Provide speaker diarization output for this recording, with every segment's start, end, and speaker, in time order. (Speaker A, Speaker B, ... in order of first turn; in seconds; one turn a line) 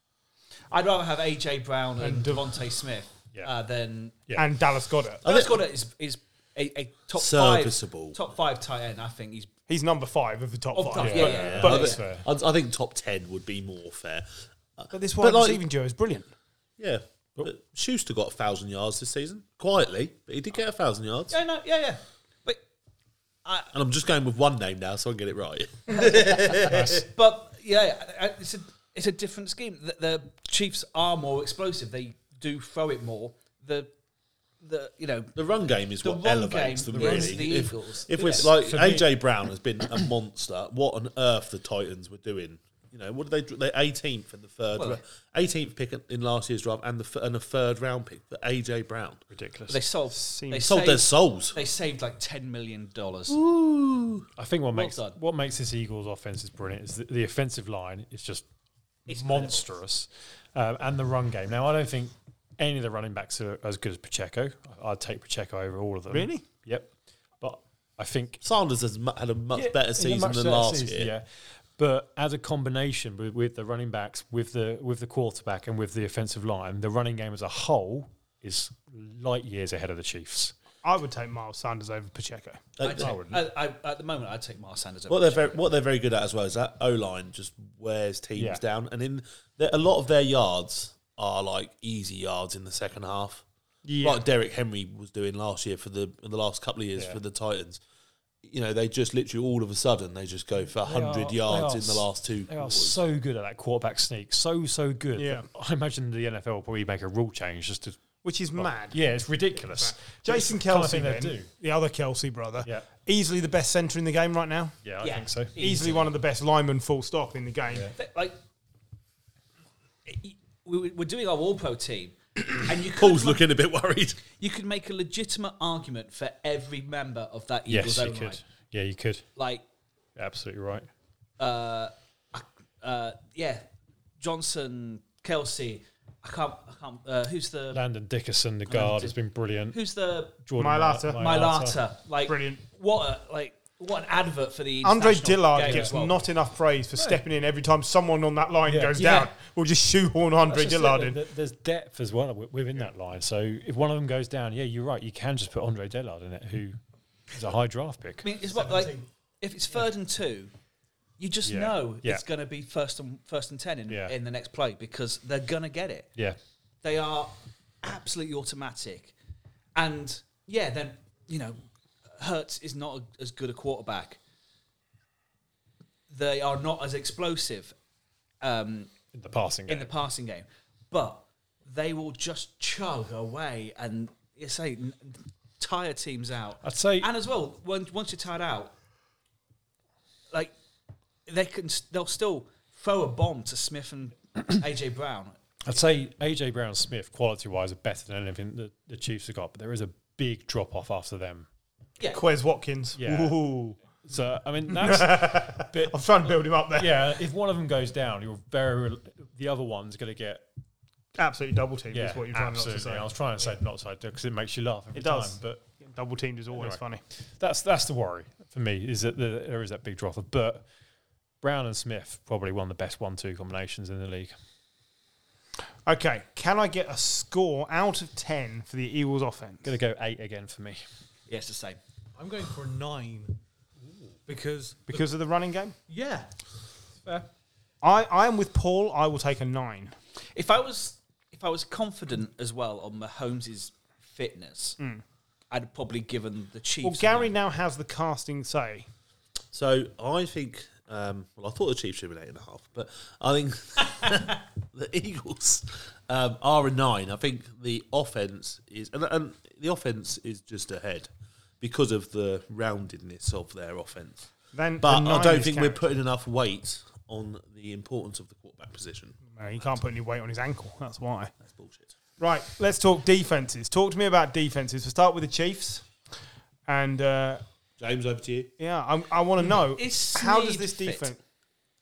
Speaker A: 0.7-4.2
Speaker B: 2.0-2.5
Speaker B: 4.4-5.2
Speaker C: 5.2-5.6
Speaker A: 5.2-9.5
Speaker C: 7.2-8.2
Speaker B: 9.7-11.9
Speaker A: 10.7-12.0
Speaker D: 11.0-12.2
Speaker C: 11.1-14.2
Speaker C: 14.8-15.6
Speaker B: 14.9-16.3
Speaker C: 16.8-21.4
Speaker A: 21.3-22.6
Speaker A: 23.4-23.7
Speaker C: 23.7-27.1
Speaker A: 25.9-33.9
Speaker A: 34.6-35.4
Speaker C: 35.4-49.2
Speaker A: 36.0-38.5
Speaker E: 37.0-37.3
Speaker D: 38.2-39.1
Speaker A: 44.8-45.0
Speaker D: 49.3-49.8
Speaker A: 49.7-53.4
Speaker B: 50.1-50.7
Speaker C: 50.6-51.6
Speaker C: 53.3-54.2
Speaker D: 54.4-58.5
Speaker A: 54.7-55.2
Speaker A: 59.1-59.6
Speaker D: 59.1-68.4
Speaker B: 66.1-66.4
Speaker C: 68.4-71.1
Speaker D: 69.5-80.5
Speaker B: 80.8-82.7
Speaker C: 82.8-83.1
Speaker A: 82.8-85.6
Speaker D: 83.0-83.4
Speaker C: 85.1-93.4
Speaker D: 88.4-88.6
Speaker B: 93.8-94.2
Speaker C: 94.0-97.8
Speaker C: 98.4-103.0
Speaker D: 100.8-108.0
Speaker B: 105.2-105.5
Speaker B: 108.2-109.0
Speaker D: 108.5-111.5
Speaker B: 109.8-114.8
Speaker D: 112.6-112.9
Speaker D: 114.8-115.8
Speaker A: 115.0-116.1
Speaker B: 115.6-117.9
Speaker A: 118.0-118.4
Speaker A: 120.1-123.4
Speaker C: 122.8-124.2
Speaker A: 124.4-128.4
Speaker D: 127.7-129.2
Speaker A: 129.4-129.6
Speaker D: 130.2-130.9
Speaker A: 131.4-133.6
Speaker A: 134.2-137.8
Speaker D: 137.7-139.8
Speaker A: 138.7-139.1
Speaker A: 139.7-140.4
Speaker D: 140.4-141.8
Speaker B: 140.6-141.2
Speaker A: 141.1-146.3
Speaker B: 142.2-142.6
Speaker B: 144.8-151.2
Speaker D: 145.6-145.9
Speaker D: 147.0-147.2
Speaker D: 148.7-149.3
Speaker D: 150.5-156.8
Speaker D: 157.3-158.3
Speaker A: 158.2-160.5
Speaker E: 158.5-159.0
Speaker A: 161.2-166.1
Speaker D: 161.4-162.2
Speaker D: 163.9-164.1
Speaker A: 166.8-169.1
Speaker A: 169.8-174.2
Speaker A: 176.1-177.7
Speaker A: 178.4-178.9
Speaker D: 179.1-179.9
Speaker A: 179.7-188.7
Speaker D: 186.6-187.1
Speaker A: 191.2-195.4
Speaker D: 195.6-201.5
Speaker B: 202.1-203.8
Speaker D: 203.0-203.4
Speaker D: 204.0-205.9
Speaker B: 204.7-207.0
Speaker D: 206.7-210.5
Speaker B: 211.2-213.1
Speaker D: 211.9-215.6
Speaker B: 214.9-217.0
Speaker D: 216.5-216.8
Speaker D: 217.4-220.6
Speaker D: 221.4-224.3
Speaker B: 225.9-229.7
Speaker D: 229.6-230.8
Speaker A: 231.3-231.8
Speaker E: 232.2-233.4
Speaker E: 234.2-235.0
Speaker B: 234.9-235.8
Speaker E: 235.9-236.3
Speaker B: 237.8-239.9
Speaker A: 240.3-244.8
Speaker A: 245.5-247.3
Speaker B: 246.8-248.9
Speaker C: 249.5-261.1
Speaker C: 261.6-264.3
Speaker B: 264.5-265.8
Speaker C: 264.8-269.2
Speaker B: 269.4-271.3
Speaker C: 271.4-271.9
Speaker B: 272.2-275.9
Speaker B: 276.7-277.4
Speaker C: 277.8-278.5
Speaker B: 278.6-281.2
Speaker A: 279.4-281.1